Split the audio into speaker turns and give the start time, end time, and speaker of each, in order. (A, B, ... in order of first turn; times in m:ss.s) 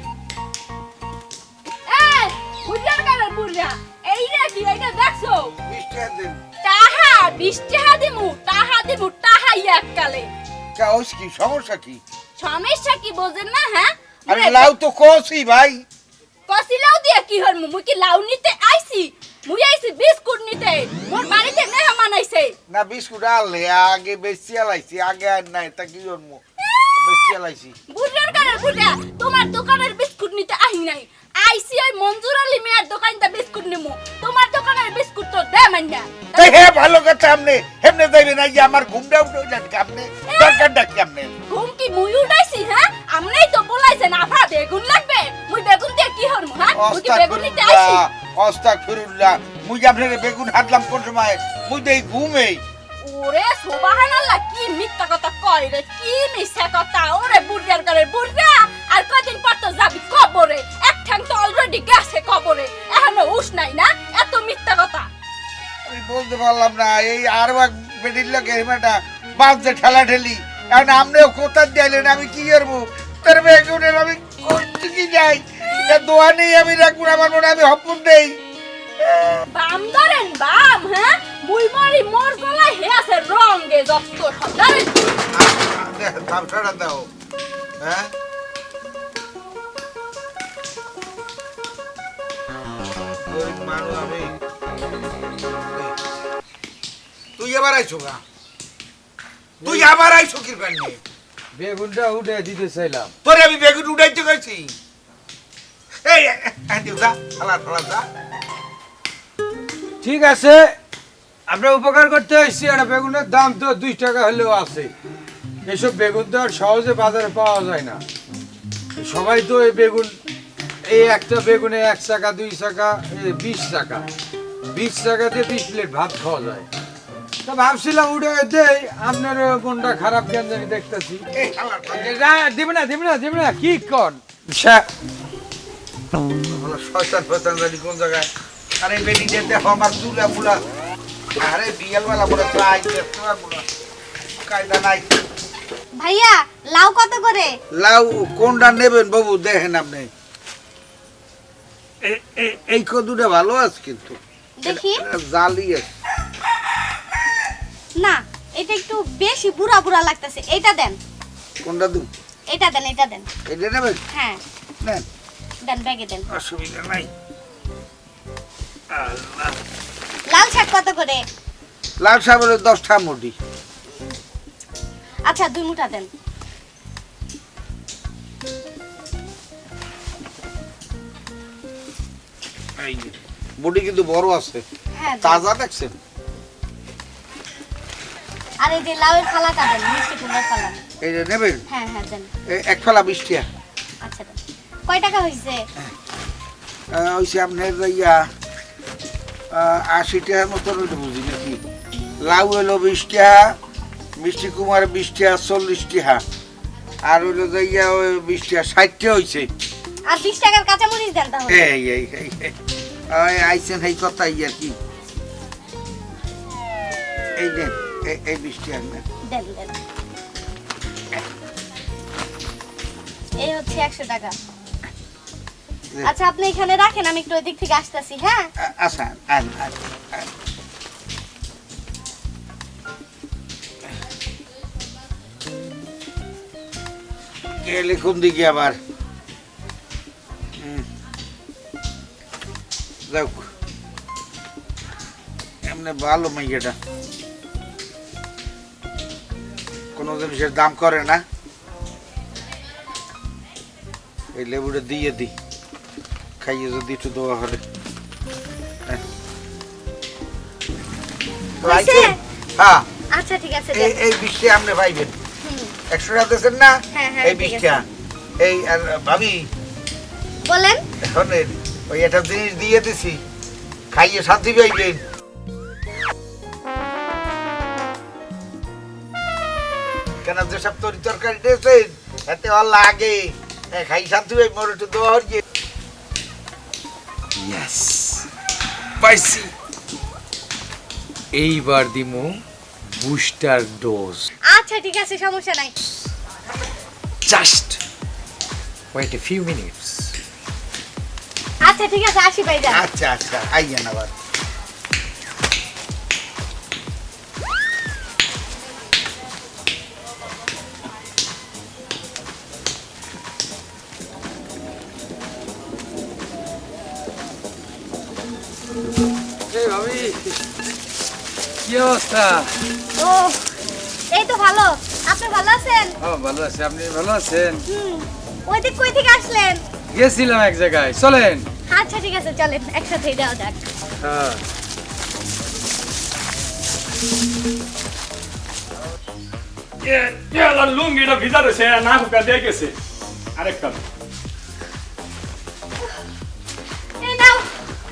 0:01.9-0:05.5 A
0:05.7-0:06.4 B
0:06.6-0:10.3 A
0:10.8-0:12.0 B
0:12.4-0:14.7 A
0:14.3-0:15.8 B
0:16.5-0:22.5 A
0:22.7-0:26.4 B
0:27.0-0:27.8 B
0:27.9-0:36.7 A
0:36.3-0:41.3 B
0:40.3-0:40.6 A
0:41.5-0:48.0 A
0:46.8-0:52.6 B
0:53.0-1:05.1 A
1:05.9-1:18.4 B
1:19.0-1:19.4 B
1:19.5-1:25.0 A
1:25.3-1:27.1 B
1:27.8-1:28.1 B
1:33.3-1:34.3 B
1:35.7-1:36.0 B
1:37.4-1:38.2 B
1:39.6-1:39.9 C
1:39.6-1:41.0 B
1:41.6-1:43.1 C
1:43.2-1:44.7 B
1:46.0-1:48.0 B
1:50.0-1:50.6 C
1:51.5-1:54.9 C
1:55.7-1:58.0 C
1:59.0-2:00.1 C
2:00.9-2:04.0 C
2:04.7-2:06.7 C
2:07.5-2:11.2 C
2:11.4-2:12.1 B
2:12.0-2:14.8 C
2:16.5-2:18.3 B
2:18.8-2:20.6 B
2:21.4-2:23.6 B
2:24.4-2:25.1 B
2:26.0-2:27.5 D
2:27.7-2:30.1 B
2:32.0-2:35.9 B
2:34.6-2:35.0 D
2:38.0-2:41.0 D
2:41.6-2:42.1 B
2:42.5-2:43.3 D
2:43.5-2:44.0 B
2:44.1-2:44.4 D
2:45.6-2:46.3 D
2:46.3-2:47.1 B
2:48.9-2:49.5 B
2:50.3-2:51.2 D
2:52.0-2:53.4 B
2:55.3-2:56.1 D
3:02.8-3:04.6 B
3:05.0-3:05.4 D
3:05.2-3:06.0 B
3:08.6-3:10.8 D
3:11.0-3:11.6 B
3:11.7-3:12.3 D
3:12.5-3:13.5 B
3:14.0-3:15.6 D
3:16.9-3:18.2 B
3:19.5-3:21.6 B
3:22.2-3:23.5 B
3:24.2-3:26.2 B
3:27.1-3:29.5 B
3:30.1-3:31.6 D
3:31.5-3:32.6 B
3:33.1-3:34.7 B
3:37.4-3:39.0 B
3:39.3-3:39.8 D
3:43.4-3:44.4 D
3:46.0-3:48.5 D
3:48.6-3:50.3 B
3:57.6-3:58.8 B
4:00.6-4:00.9 B
4:03.1-4:03.5 B
4:05.7-4:06.8 B
4:10.0-4:11.2 B
4:14.4-4:15.3 B
4:16.4-4:17.6 B
4:21.6-4:22.9 B
4:21.6-4:22.2 D
4:23.1-4:24.0 D
4:23.7-4:25.1 B
4:25.4-4:25.7 D
4:25.9-4:27.9 B
4:26.9-4:27.7 D
4:28.4-4:29.5 B
4:30.5-4:30.8 D
4:31.0-4:33.2 B
4:33.9-4:35.0 B
4:40.2-4:45.4 B
4:47.4-4:48.3 C
4:49.0-4:49.5 C
4:51.3-4:52.3 C
4:53.0-4:54.3 C
4:54.5-4:55.7 D
4:57.3-4:57.8 C
4:58.9-5:00.1 C
5:01.6-5:02.8 D
5:02.7-5:04.1 B
5:19.5-5:20.4 C
5:21.7-5:22.5 C
5:23.0-5:23.5 D
5:24.1-5:26.0 D
5:26.0-5:27.6 C
5:27.7-5:29.6 D
5:29.9-5:31.5 C
5:31.7-5:33.7 D
5:34.0-5:34.4 C
5:39.8-5:42.7 E
5:43.4-5:43.8 E
5:47.0-5:47.5 D